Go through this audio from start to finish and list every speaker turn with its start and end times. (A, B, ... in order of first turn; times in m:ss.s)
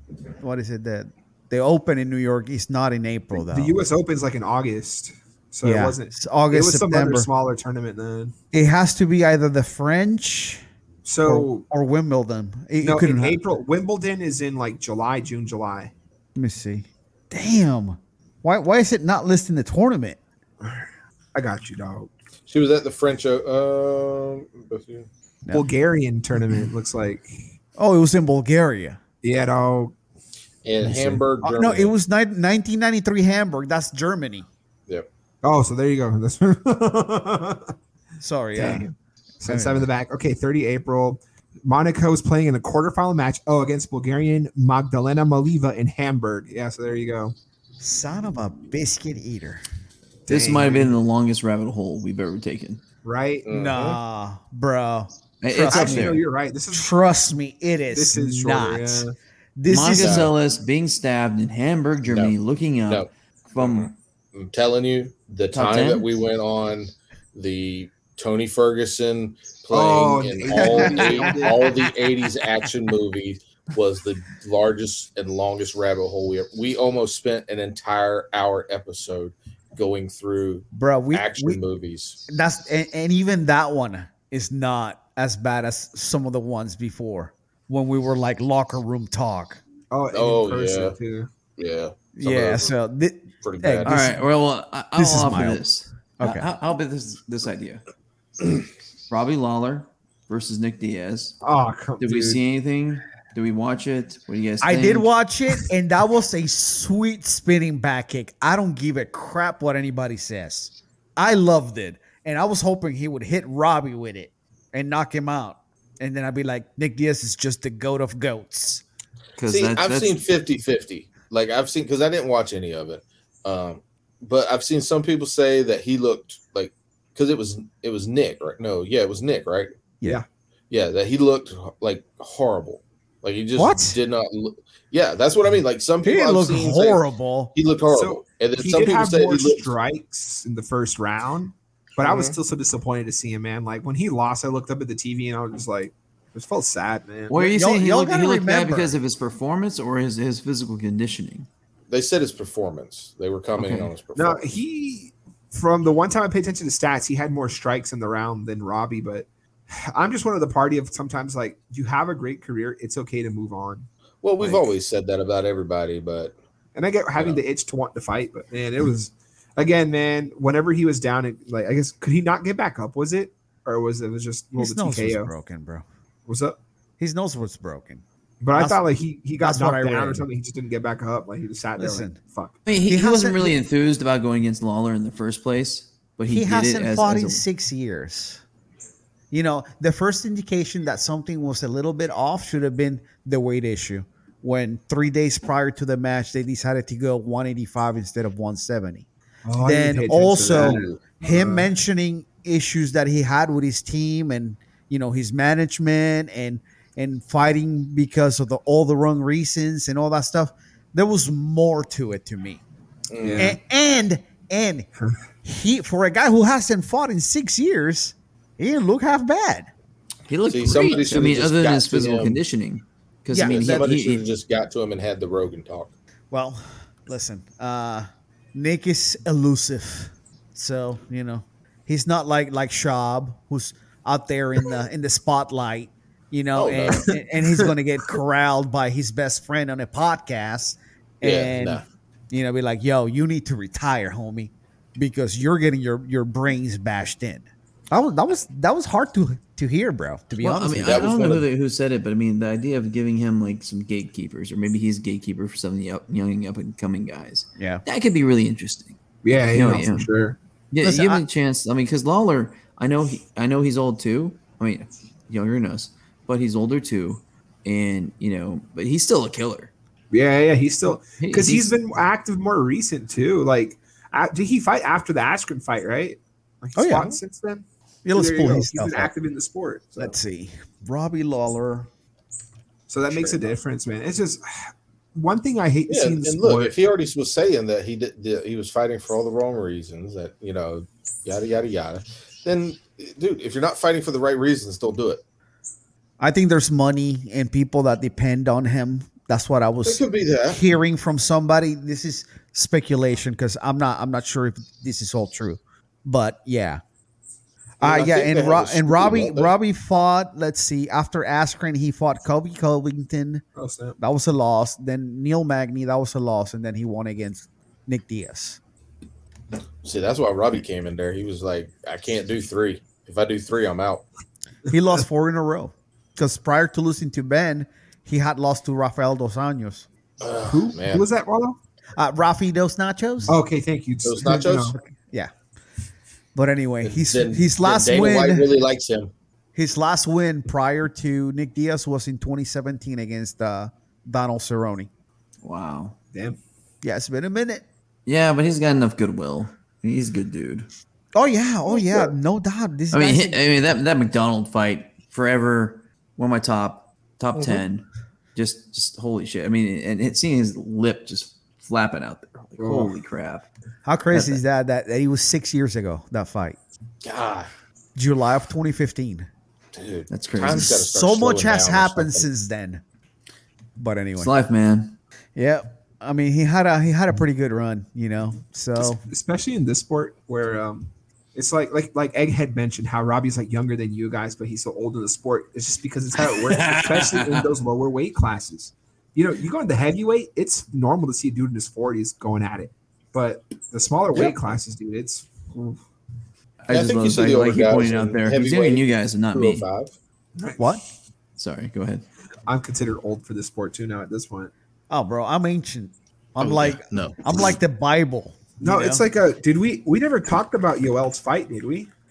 0:00.4-0:03.8 A
0:03.3-0:08.3 B
0:05.6-0:07.3 A
0:08.5-0:10.6 A
0:11.0-0:11.7 B
0:11.2-0:13.4 A
0:12.8-0:15.9 B
0:16.4-0:20.2 A
0:20.6-0:22.1 B
0:22.5-0:25.1 C
0:25.5-0:27.4 B
0:27.8-0:29.0 A
0:29.2-0:29.9 B
0:30.6-0:31.9 C
0:30.8-0:31.2 B
0:31.4-0:34.5 A
0:35.4-0:37.7 B
0:38.2-0:38.9 A
0:38.6-0:47.4 B
0:39.5-0:39.9 A
0:47.8-0:49.6 A
0:50.3-0:51.0 B
0:50.3-0:52.8 D
0:53.0-0:53.5 B
0:53.4-0:54.0 C
0:53.5-0:59.1 A
0:55.4-0:56.2 D
0:55.7-0:56.9 B
0:57.9-0:59.1 B
0:59.6-1:00.3 A
0:59.7-1:03.9 D
0:59.9-1:00.3 C
1:02.0-1:02.4 C
1:02.9-1:22.2 C
1:05.5-1:06.1 D
1:09.7-1:11.8 B
1:10.5-1:11.9 A
1:20.7-1:21.6 A
1:22.3-1:29.6 A
1:29.9-1:31.3 B
1:30.1-1:31.0 C
1:31.6-1:32.7 C
1:32.2-1:34.2 A
1:33.4-1:34.1 C
1:33.8-1:37.8 D
1:35.0-1:35.6 A
1:36.2-1:36.5 A
1:39.1-1:41.4 D
1:41.4-1:42.4 B
1:42.0-1:45.1 D
1:44.6-1:58.8 A
1:59.4-2:00.2 D
1:59.5-2:09.7 C
2:10.7-2:17.0 C
2:13.6-2:14.0 A
2:16.0-2:17.5 A
2:17.5-2:19.7 C
2:17.9-2:27.4 B
2:22.0-2:22.4 C
2:27.3-2:31.5 D
2:27.4-2:28.9 A
2:31.9-2:34.5 C
2:33.6-2:33.9 D
2:34.2-2:43.9 B
2:44.2-2:46.3 C
2:46.8-2:55.3 B
2:54.6-2:55.8 A
2:56.3-2:56.6 B
2:57.0-2:58.0 A
2:58.4-3:02.6 B
2:58.5-2:58.8 A
2:59.4-3:00.2 A
3:01.8-3:02.2 A
3:02.7-3:07.4 D
3:02.9-3:03.6 A
3:06.3-3:08.4 A
3:09.3-3:19.1 A
3:19.4-3:21.7 B
3:19.6-3:32.6 A
3:20.5-3:21.0 C
3:33.1-3:33.6 C
3:33.2-3:33.6 B
3:33.4-3:34.9 A
3:35.4-3:39.7 A
3:40.3-3:44.3 D
3:40.5-3:42.4 C
3:43.3-3:43.9 A
3:43.4-3:45.9 C
3:46.3-4:11.1 A
3:56.6-3:57.1 C
3:57.1-3:58.2 B
4:01.2-4:01.8 C
4:10.4-4:19.0 D
4:10.8-4:11.4 C
4:17.6-4:17.8 A
4:19.2-4:20.4 B
4:19.5-4:20.1 D
4:20.7-4:29.7 D
4:20.8-4:21.2 A
4:30.1-4:40.2 B
4:31.2-4:31.7 D
4:36.8-4:37.1 A
4:38.0-4:39.1 A
4:40.0-4:41.9 A
4:42.9-4:46.8 B
4:43.1-4:43.5 C
4:45.9-4:55.2 C
4:56.2-5:06.8 A
4:59.8-5:00.6 C
5:07.8-5:09.5 C
5:07.8-5:13.4 A
5:13.6-5:14.0 B
5:14.0-5:18.6 A
5:19.8-5:24.0 C
5:24.7-5:29.9 A
5:30.2-5:31.0 C
5:30.5-5:31.6 B
5:32.0-5:33.4 A
5:33.3-5:34.8 B
5:34.0-5:34.8 C
5:34.8-5:35.3 A
5:36.4-5:38.5 A
5:36.8-5:39.1 C
5:39.6-5:44.9 A
5:45.4-5:46.0 D
5:46.1-5:46.4 B
5:46.8-5:47.6 A
5:48.1-5:50.7 D
5:51.2-5:53.4 A
5:51.7-5:52.1 B
5:52.9-6:03.5 D
5:57.4-5:57.6 C
6:02.6-6:03.0 B
6:03.8-6:06.6 A
6:04.1-6:04.4 D
6:07.0-6:07.5 C
6:08.0-6:09.3 A
6:09.7-6:12.3 C
6:10.1-6:10.8 D
6:10.5-6:12.8 A
6:13.8-6:14.3 A
6:14.2-6:15.0 D
6:15.4-6:19.0 A
6:18.8-6:35.8 B
6:26.2-6:27.5 D
6:36.6-6:39.7 D
6:36.7-6:39.9 C
6:40.4-6:40.6 B
6:41.4-6:42.0 D
6:42.5-6:44.5 B
6:44.9-6:49.0 A
6:46.4-6:47.6 C
6:48.6-6:51.9 B